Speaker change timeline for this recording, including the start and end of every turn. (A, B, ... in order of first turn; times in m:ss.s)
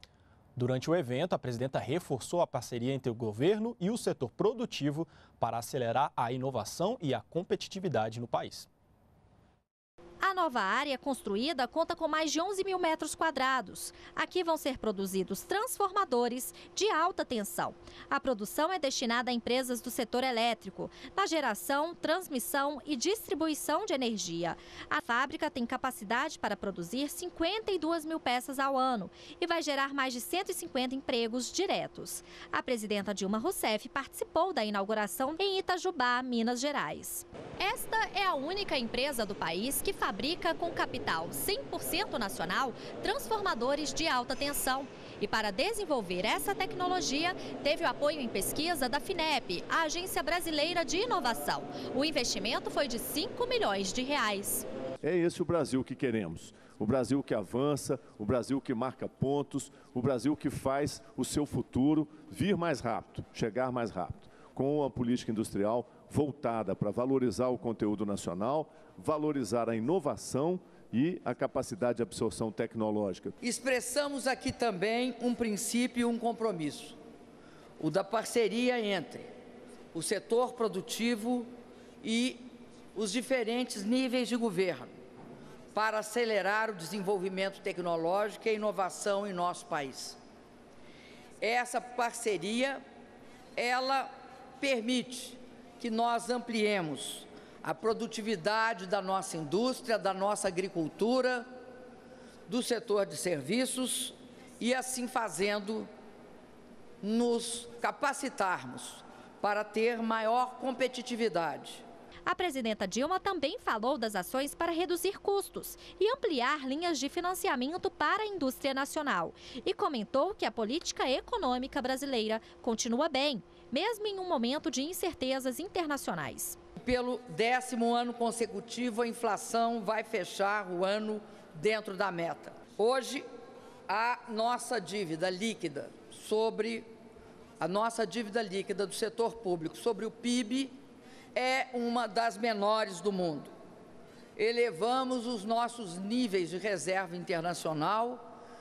0:00.6-0:08.7 A
0:10.2-0:54.7 B
0:55.0-1:13.4 C
1:13.4-1:17.0 D
1:17.8-1:19.3 D
1:19.9-1:21.5 D
1:22.0-1:25.0 D
1:25.7-1:30.2 D
1:31.4-1:32.8 D
1:33.6-1:41.5 D
1:42.5-1:45.9 D
1:47.0-1:51.8 D
1:52.3-2:06.6 B
2:06.8-2:13.2 D
2:13.9-2:16.9 D
2:17.6-2:20.8 D
2:21.3-2:23.5 D
2:24.4-2:28.3 D